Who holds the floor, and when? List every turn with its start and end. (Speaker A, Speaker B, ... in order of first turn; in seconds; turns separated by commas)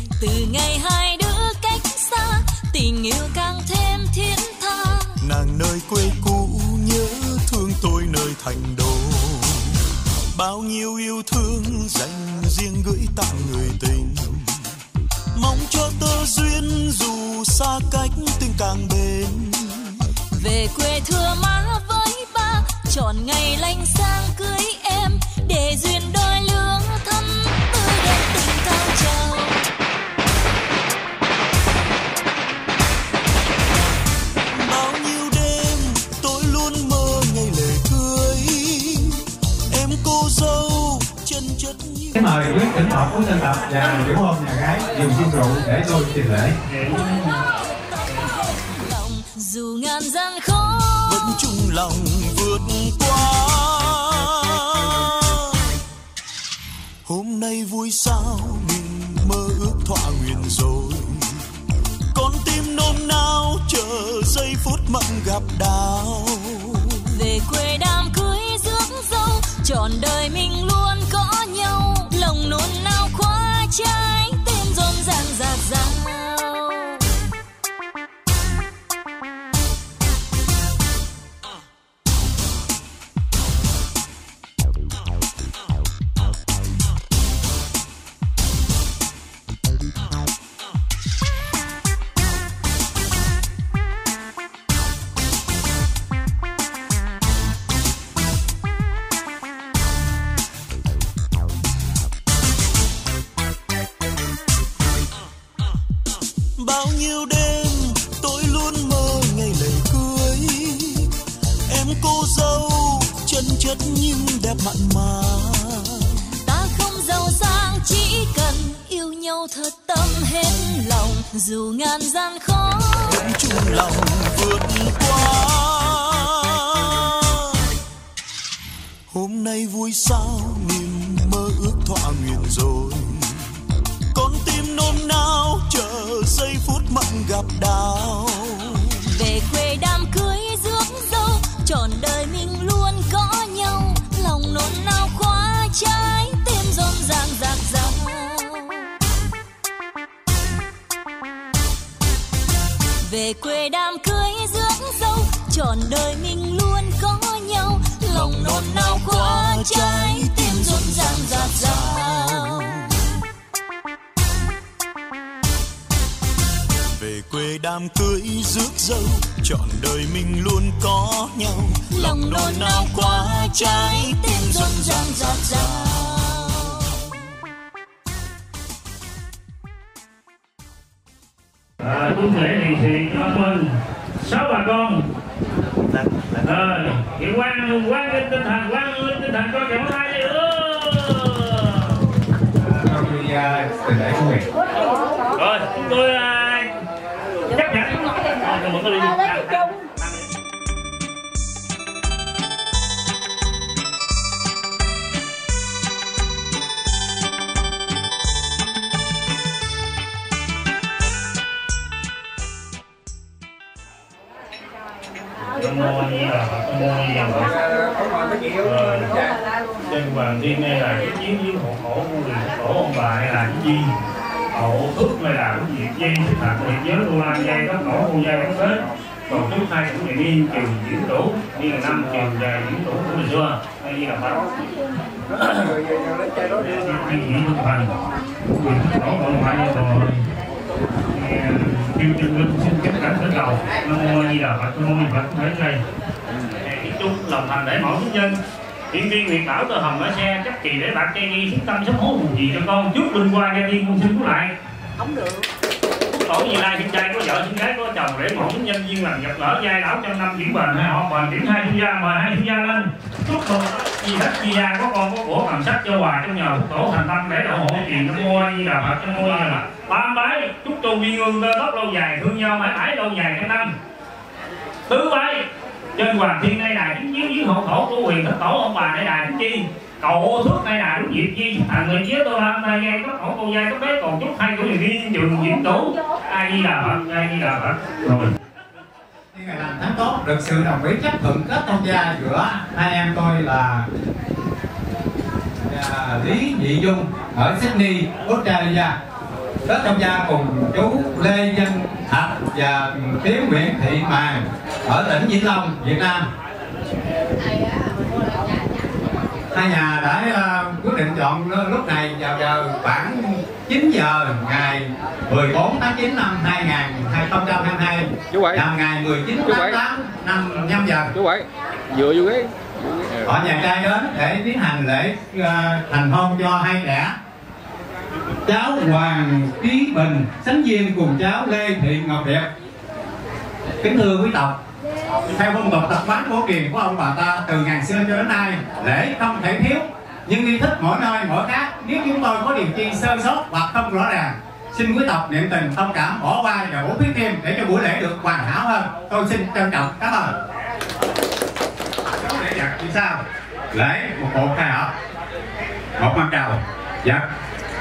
Speaker A: 0.2-5.2, Speaker B: 5.2-9.6, Speaker B: 10.3-14.5, Speaker B: 15.3-19.9, Speaker A: 20.4-29.6, Speaker B: 34.5-42.5, Speaker C: 42.1-46.6, Speaker A: 46.8-51.2, Speaker B: 51.0-55.5, Speaker B: 57.0-61.3, Speaker B: 62.1-67.1, Speaker A: 67.1-77.0, Speaker B: 106.6-111.1, Speaker B: 111.7-116.0, Speaker A: 116.4-123.2, Speaker B: 123.0-127.4, Speaker B: 129.1-133.3, Speaker B: 134.1-138.8, Speaker A: 139.1-148.9, Speaker A: 153.0-162.7, Speaker B: 158.1-162.9, Speaker B: 166.9-177.0, Speaker A: 171.9-176.8, Speaker D: 181.8-185.1, Speaker D: 186.4-192.0, Speaker C: 192.6-194.5, Speaker D: 195.3-196.7, Speaker D: 197.5-200.1, Speaker D: 215.5-217.5, Speaker E: 217.7-218.5, Speaker D: 218.6-219.2, Speaker D: 219.9-223.9, Speaker D: 224.5-234.5, Speaker D: 235.3-235.8, Speaker D: 236.5-237.9, Speaker D: 238.6-240.2, Speaker D: 241.1-245.8, Speaker D: 246.6-248.4, Speaker D: 248.9-254.5, Speaker D: 256.1-273.7, Speaker D: 274.9-275.4, Speaker D: 275.9-288.3, Speaker C: 289.3-293.9, Speaker C: 295.7-298.9, Speaker C: 299.6-306.2, Speaker C: 309.5-321.1, Speaker E: 318.3-318.6, Speaker E: 319.5-319.8, Speaker E: 321.1-322.5, Speaker C: 323.2-327.1, Speaker C: 328.4-332.5, Speaker C: 333.8-334.6, Speaker C: 335.3-350.3, Speaker C: 352.2-354.9, Speaker C: 356.0-357.2